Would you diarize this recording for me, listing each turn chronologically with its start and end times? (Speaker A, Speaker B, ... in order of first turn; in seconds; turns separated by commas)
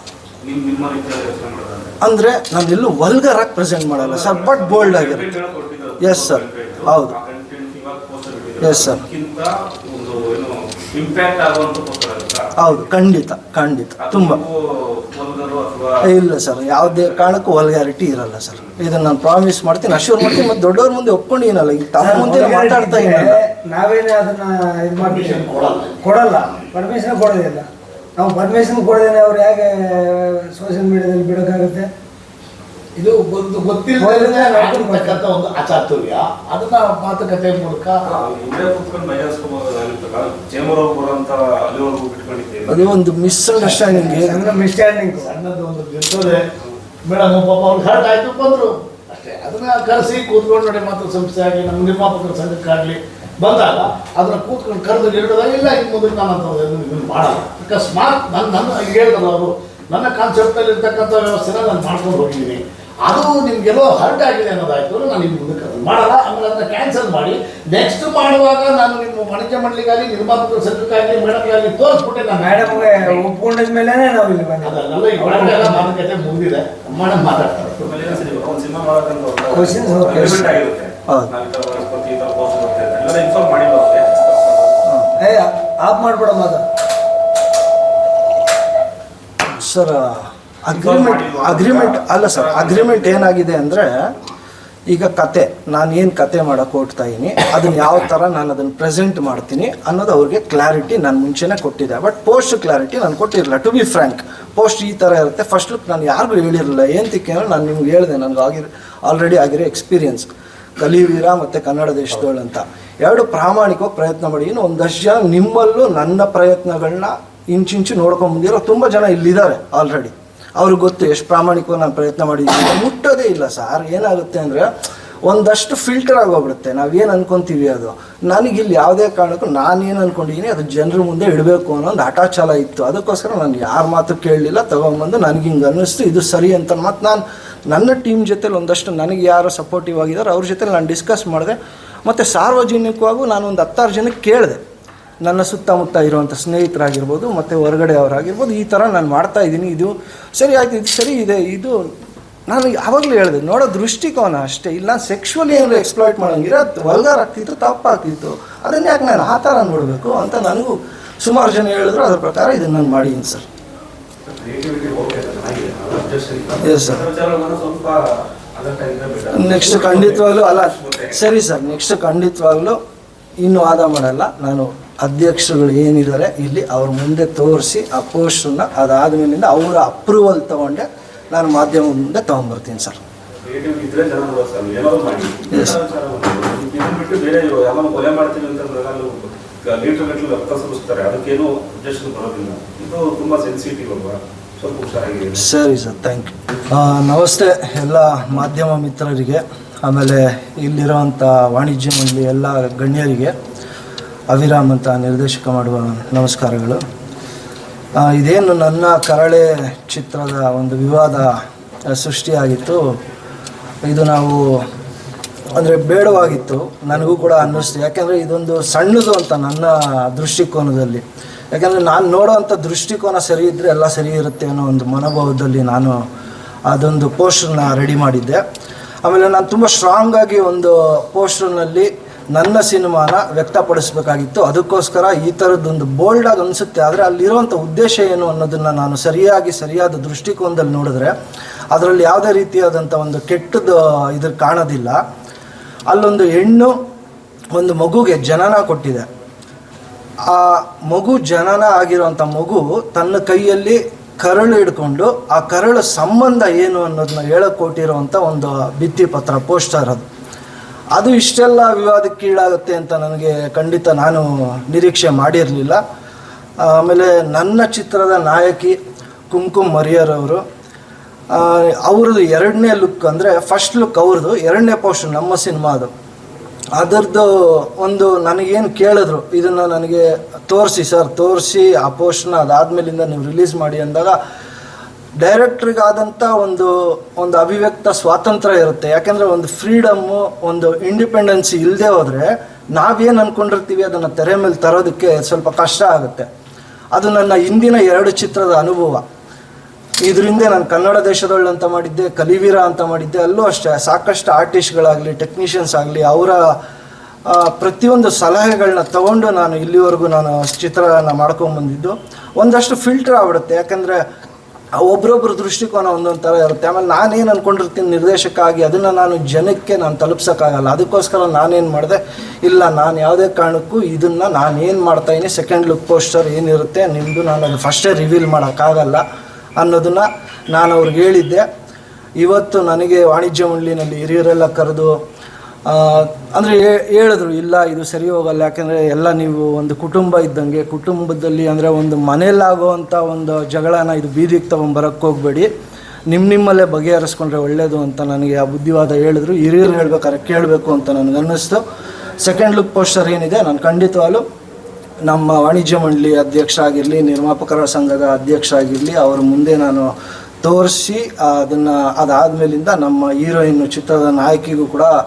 Speaker A: 0.4-1.9, Speaker B: 2.0-5.4, Speaker A: 3.9-12.5, Speaker B: 6.0-7.2, Speaker B: 8.6-9.0, Speaker B: 12.6-14.4, Speaker A: 14.0-15.9, Speaker B: 16.0-23.4, Speaker A: 16.8-17.4, Speaker C: 22.0-31.9, Speaker D: 25.0-26.0, Speaker D: 33.0-38.0, Speaker C: 34.0-35.2, Speaker A: 38.0-43.0, Speaker B: 42.7-44.4, Speaker C: 43.6-45.4, Speaker D: 45.2-46.4, Speaker D: 47.1-73.2, Speaker C: 72.4-75.9, Speaker D: 74.6-78.0, Speaker A: 77.8-84.7, Speaker C: 79.5-80.5, Speaker B: 84.9-85.1, Speaker C: 85.2-86.6, Speaker B: 89.6-93.9, Speaker A: 90.7-93.4, Speaker B: 94.9-124.7, Speaker B: 125.2-144.6, Speaker B: 145.2-151.8, Speaker B: 152.5-163.4, Speaker A: 164.3-171.2, Speaker B: 166.6-167.1, Speaker B: 169.3-172.8, Speaker B: 173.4-183.0, Speaker A: 183.4-195.5, Speaker B: 185.5-185.8, Speaker B: 195.3-203.3, Speaker B: 204.3-206.8, Speaker B: 208.0-211.3, Speaker B: 211.9-212.8, Speaker B: 213.9-214.4, Speaker B: 215.6-226.0, Speaker B: 226.7-228.4, Speaker B: 229.0-241.1, Speaker B: 241.7-245.0, Speaker B: 245.9-246.7, Speaker B: 247.5-249.1, Speaker B: 250.3-260.1, Speaker B: 260.9-265.8, Speaker B: 266.6-268.8, Speaker B: 269.3-270.4, Speaker B: 271.3-275.9, Speaker B: 276.8-284.2, Speaker B: 285.2-296.3, Speaker B: 296.9-299.0, Speaker B: 300.0-306.4, Speaker B: 307.3-314.0, Speaker B: 314.8-329.0, Speaker B: 329.6-331.4, Speaker B: 332.2-335.0, Speaker B: 335.7-345.5, Speaker B: 346.1-351.6, Speaker B: 352.2-354.2, Speaker B: 355.1-359.9, Speaker B: 360.4-364.9